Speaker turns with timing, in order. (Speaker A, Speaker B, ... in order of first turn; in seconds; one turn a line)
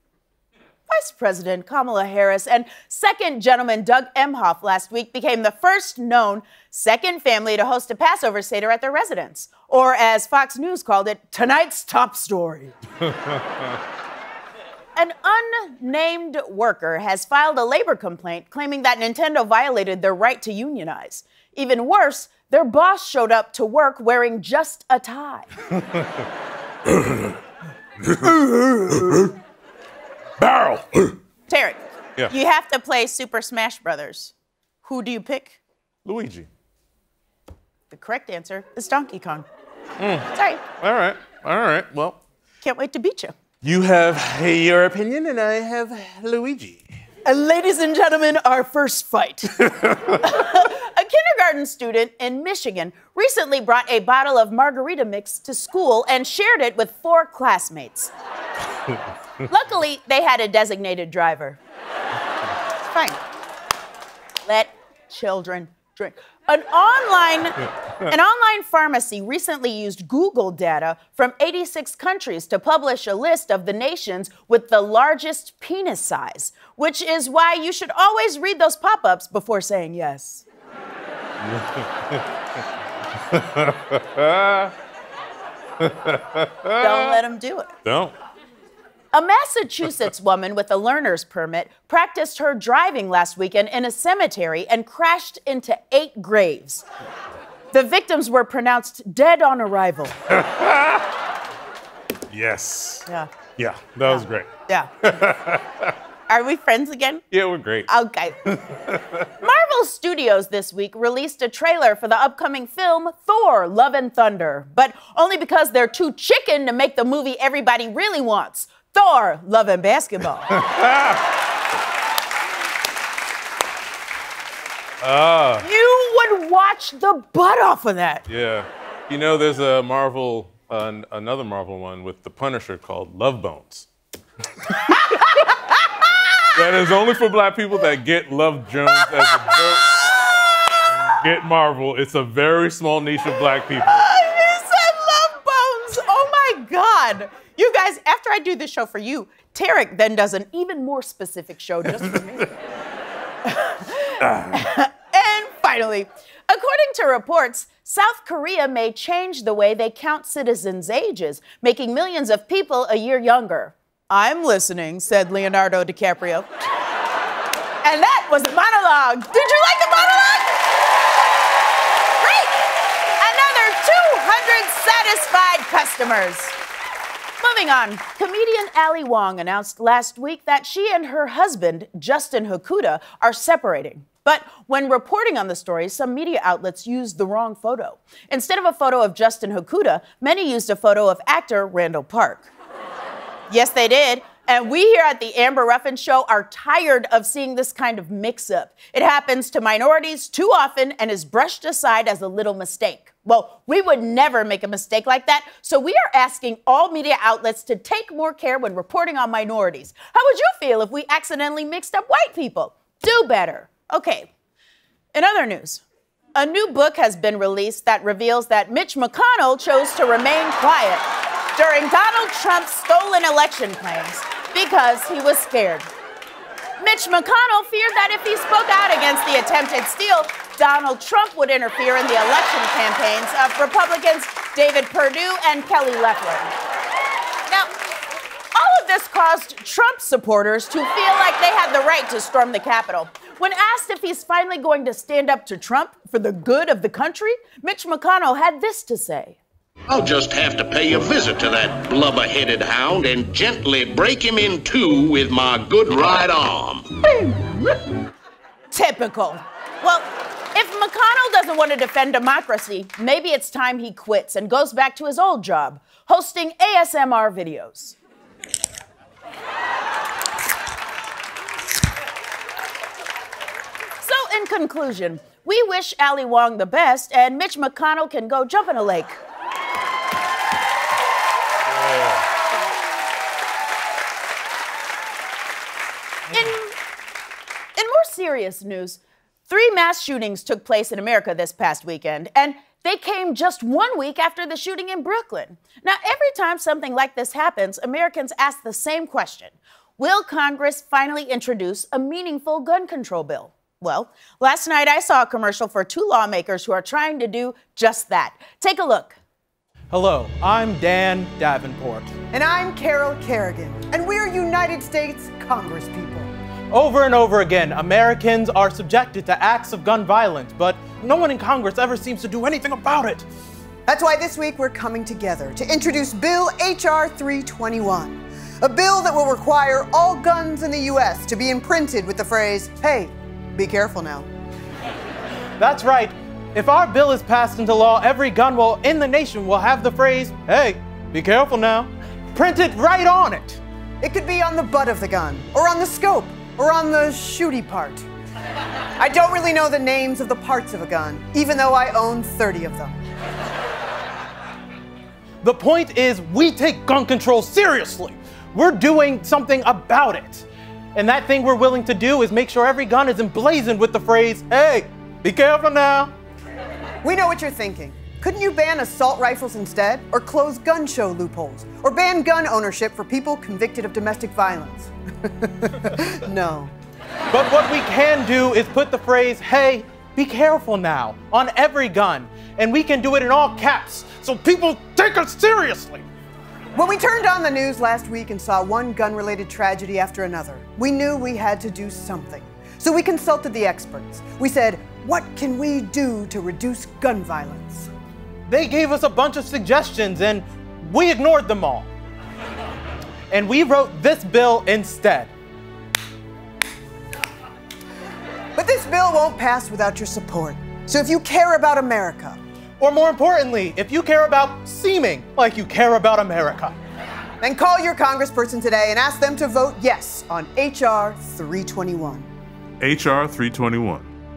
Speaker A: 0.9-12.8
Speaker A: 15.0-25.5
Speaker B: 28.1-28.4
Speaker B: 28.9-29.3
Speaker B: 30.4-31.1
Speaker A: 31.5-35.6
Speaker B: 36.0-36.5
Speaker A: 37.9-39.5
Speaker B: 40.0-40.3
Speaker A: 40.3-40.6
Speaker B: 40.8-42.2
Speaker A: 42.6-43.4
Speaker B: 43.6-46.9
Speaker A: 47.2-58.1
Speaker A: 59.5-61.6
Speaker A: 64.5-80.5
Speaker B: 81.5-82.2
Speaker B: 83.3-84.7
Speaker B: 85.8-87.1
Speaker A: 86.8-87.7
Speaker B: 87.8-88.1
Speaker A: 89.1-96.8
Speaker A: 97.7-100.2
Speaker B: 100.3-101.0
Speaker B: 102.3-103.1
Speaker B: 103.6-104.5
Speaker A: 104.1-105.2
Speaker B: 105.0-105.7
Speaker A: 106.3-107.3
Speaker B: 107.3-107.9
Speaker A: 107.9-108.4
Speaker B: 108.5-109.3
Speaker A: 109.3-120.6
Speaker B: 120.6-121.2
Speaker B: 125.0-125.6
Speaker A: 125.6-128.2
Speaker B: 128.3-133.9
Speaker B: 134.7-135.0
Speaker A: 134.9-136.5
Speaker B: 136.5-140.0
Speaker A: 138.9-141.2
Speaker B: 141.0-144.1
Speaker A: 143.8-152.5
Speaker A: 153.4-166.7
Speaker A: 167.8-170.6
Speaker A: 172.2-172.7
Speaker A: 173.2-176.6
Speaker A: 177.4-192.5
Speaker A: 193.5-214.3
Speaker A: 215.1-215.8
Speaker A: 216.3-225.9
Speaker A: 226.8-236.5
Speaker A: 238.6-249.4
Speaker C: 249.9-256.9
Speaker A: 258.7-268.0
Speaker A: 274.0-279.2
Speaker A: 286.3-286.8
Speaker A: 287.8-309.2
Speaker D: 309.9-312.1
Speaker E: 312.3-316.3
Speaker D: 316.7-323.3
Speaker E: 323.9-334.3
Speaker D: 335.6-343.6
Speaker E: 344.0-348.1
Speaker E: 349.0-353.0
Speaker D: 355.4-366.1
Speaker E: 367.0-376.7
Speaker D: 377.3-386.1
Speaker E: 386.8-397.9
Speaker D: 398.5-401.9
Speaker D: 403.3-405.3
Speaker E: 408.6-412.4
Speaker D: 412.8-416.8
Speaker E: 417.4-422.3
Speaker B: 422.8-424.1